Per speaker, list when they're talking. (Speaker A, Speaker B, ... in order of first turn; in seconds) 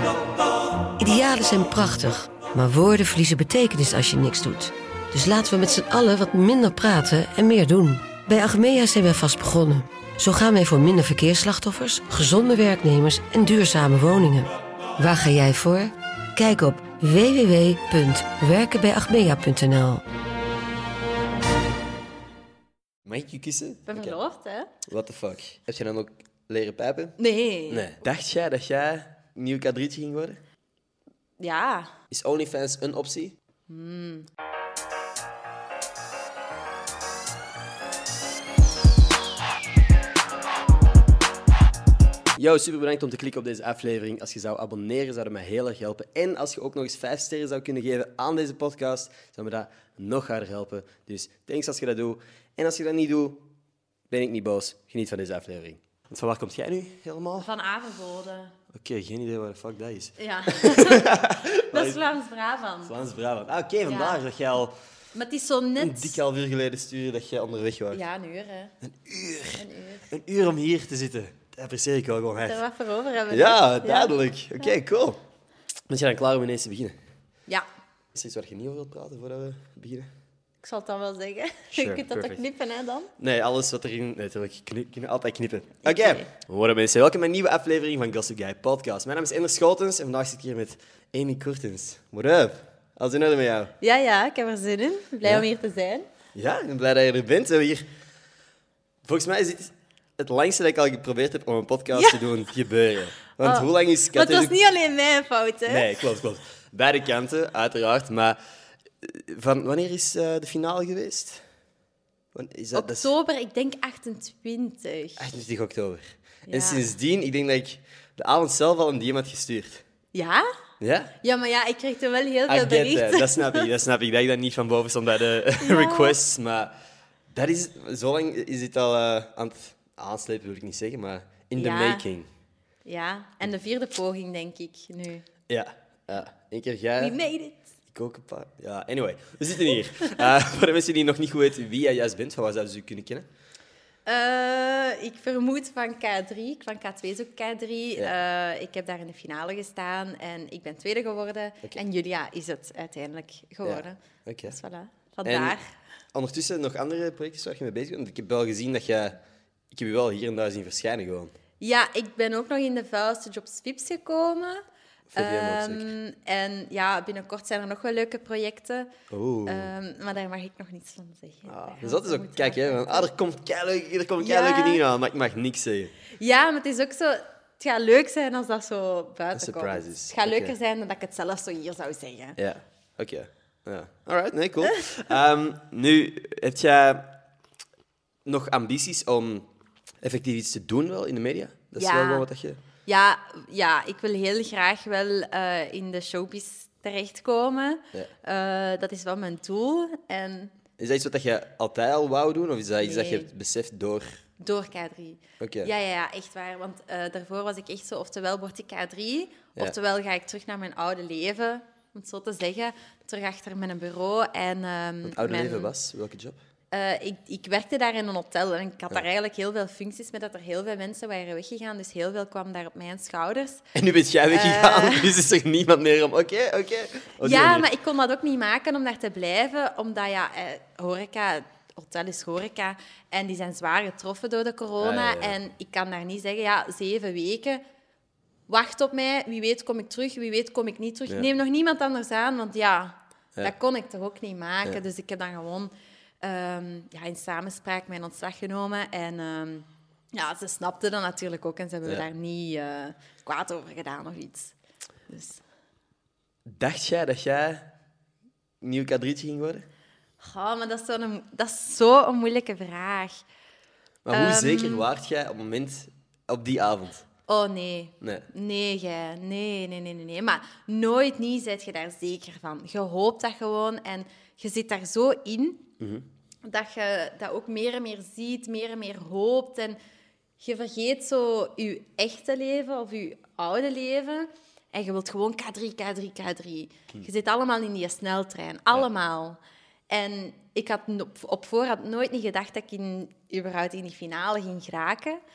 Speaker A: 1.0-20.0
Speaker B: 23.0-24.2, 24.9-27.2, 27.7-30.4, 32.1-33.4, 42.4-53.5, 54.1-57.5, 58.7-62.0, 62.8-64.8, 65.8-68.0, 68.8-72.6, 73.3-75.2, 75.9-77.0, 78.1-80.1, 81.7-82.4, 83.2-93.7, 96.3-97.9, 99.0-104.6, 105.7-108.4, 109.0-111.4, 112.3-113.1, 115.2-119.8, 120.8-121.1, 122.5-126.7, 127.3-132.3, 135.5-137.2, 137.9-143.3, 153.6-154.6, 155.2-155.6, 156.1-159.2, 159.7-161.3, 165.1-165.9, 169.1-169.7, 171.5-175.9, 179.3-180.5, 182.4-187.2, 188.2-189.5, 190.0-192.6, 200.8-204.2, 205.4-205.7, 215.1-216.4, 223.7-227.7, 234.8-235.4, 256.5-257.7, 258.6-259.7, 264.1-267.1, 268.0-268.3, 275.8-276.1
Speaker C: 23.9-24.7, 27.2-27.9, 31.4-31.9, 33.7-34.3, 57.4-58.6, 60.2-63.0, 63.8-64.2, 65.1-66.2, 67.9-68.8, 69.5-70.1, 72.4-74.7, 80.6-83.1, 85.8-86.3, 93.8-96.1, 101.9-102.2, 103.4-105.9, 112.7-115.3, 116.5-116.8, 120.1-120.5, 121.2-123.7, 125.6-126.2, 131.6-132.1, 132.9-135.3, 137.0-137.7, 144.1-155.7, 161.6-164.6, 165.2-168.9, 169.5-173.1, 174.2-174.8, 176.2-182.4, 191.8-192.3, 192.9-200.6, 202.8-203.3, 204.4-215.7, 216.7-223.7, 224.3-225.1, 227.2-237.6, 238.5-254.6, 255.1-255.4, 260.2-263.2, 264.1-264.9, 267.3-275.7, 276.4-279.8, 280.4-289.4, 289.9-295.2